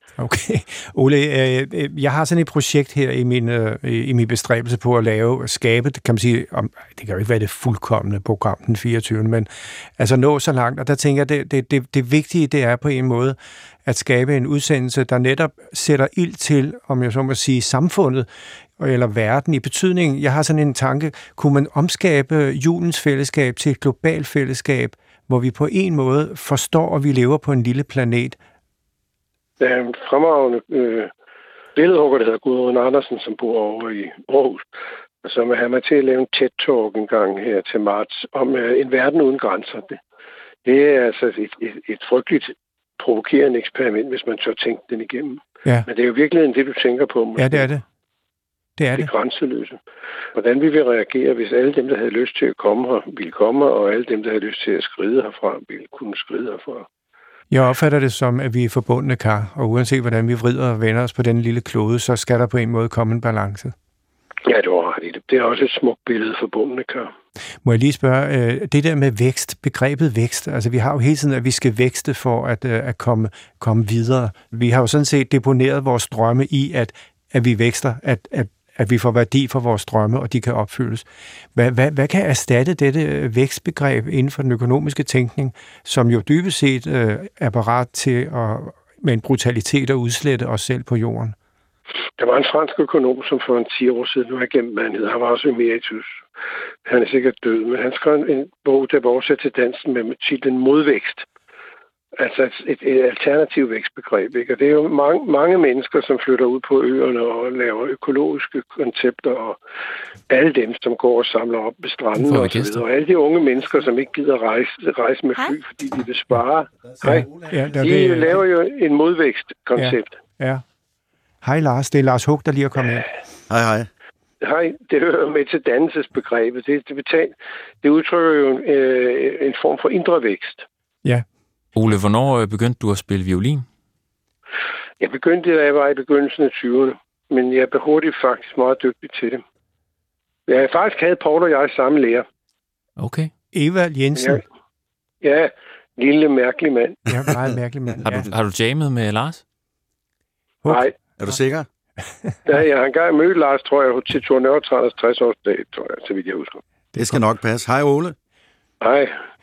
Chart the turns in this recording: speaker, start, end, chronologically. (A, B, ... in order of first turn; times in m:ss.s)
0:00.2-0:18.3 A
0:18.8-0:28.4 A
0:29.6-0:31.1 B
0:31.8-0:34.6 B
0:35.2-0:40.0 B
0:40.6-0:47.7 B
0:47.4-0:47.8 A
0:48.8-0:49.1 A
0:48.9-0:49.8 B
0:50.3-0:56.8 B
0:57.5-1:03.7 A
1:04.4-1:07.1 B
1:07.6-1:31.3 A
1:32.2-1:36.2 B
1:36.8-1:41.2 B
1:42.2-1:49.6 B
1:50.3-2:00.1 B
1:52.1-1:52.8 C
1:57.0-1:58.4 A
1:59.8-2:00.6 A
2:01.4-2:03.1 A
2:03.5-2:03.9 D
2:04.4-2:10.6 B
2:11.7-2:13.6 C
2:15.0-2:19.4 B
2:20.5-2:22.2 B
2:23.0-2:23.3 C
2:23.5-2:24.4 A
2:24.2-2:24.4 B
2:25.2-2:27.0 B
2:27.1-2:28.3 A
2:28.1-2:29.4 C
2:30.7-2:30.9 B
2:31.2-2:31.7 D
2:32.5-2:36.6 B
2:36.9-2:37.2 A
2:37.0-2:38.1 D
2:38.8-2:39.2 B